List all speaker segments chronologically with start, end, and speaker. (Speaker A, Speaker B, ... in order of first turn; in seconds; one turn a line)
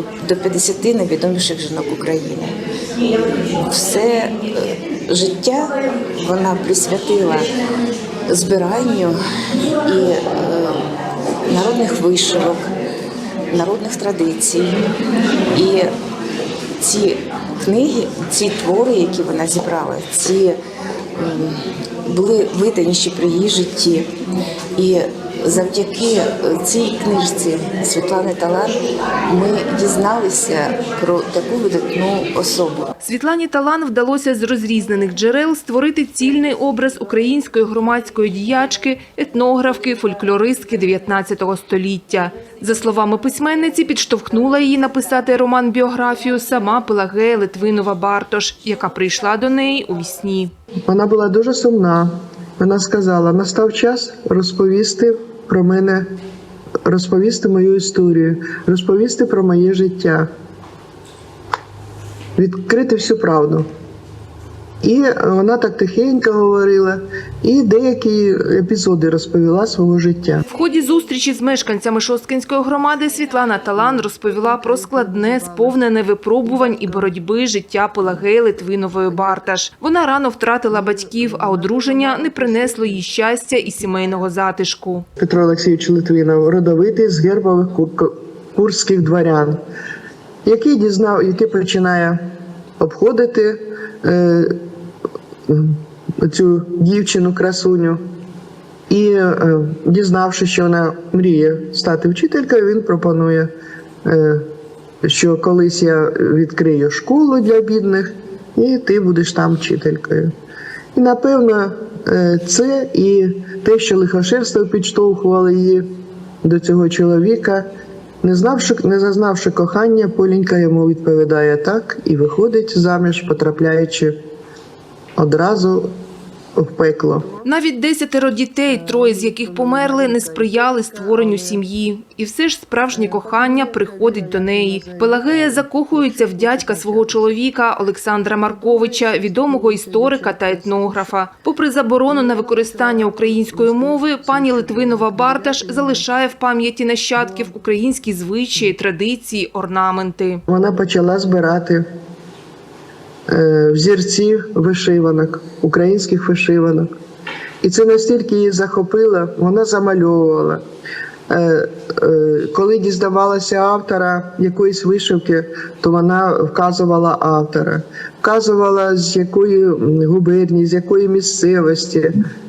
Speaker A: 0.2-2.5
Speaker A: 3.6-7.5
Speaker A: 8.3-9.2
Speaker A: 9.8-10.8
Speaker A: 11.5-12.7
Speaker A: 13.5-14.8
Speaker A: 15.5-15.9
Speaker A: 16.8-20.6
Speaker A: 21.2-24.1
Speaker A: 24.8-32.9
Speaker B: 33.0-50.5
Speaker C: 50.9-56.1
Speaker C: 56.9-60.3
Speaker C: 62.4-63.7
Speaker C: 64.8-70.4
Speaker B: 70.5-85.1
Speaker C: 74.8-75.4
Speaker C: 85.2-89.6
Speaker C: 90.5-92.2
Speaker C: 92.8-94.6
Speaker C: 95.5-98.0
Speaker C: 98.9-103.5
Speaker C: 104.0-104.5
Speaker C: 105.0-110.3
Speaker C: 110.9-115.8
Speaker C: 116.4-117.7
Speaker C: 118.2-124.2
Speaker C: 125.2-125.9
Speaker C: 126.6-127.4
Speaker B: 127.4-150.4
Speaker C: 128.9-130.4
Speaker C: 131.2-131.6
Speaker C: 132.9-137.3
Speaker C: 138.8-141.1
Speaker C: 142.4-146.0
Speaker C: 150.5-151.8
Speaker C: 153.3-156.9
Speaker C: 157.6-160.6
Speaker C: 161.3-172.1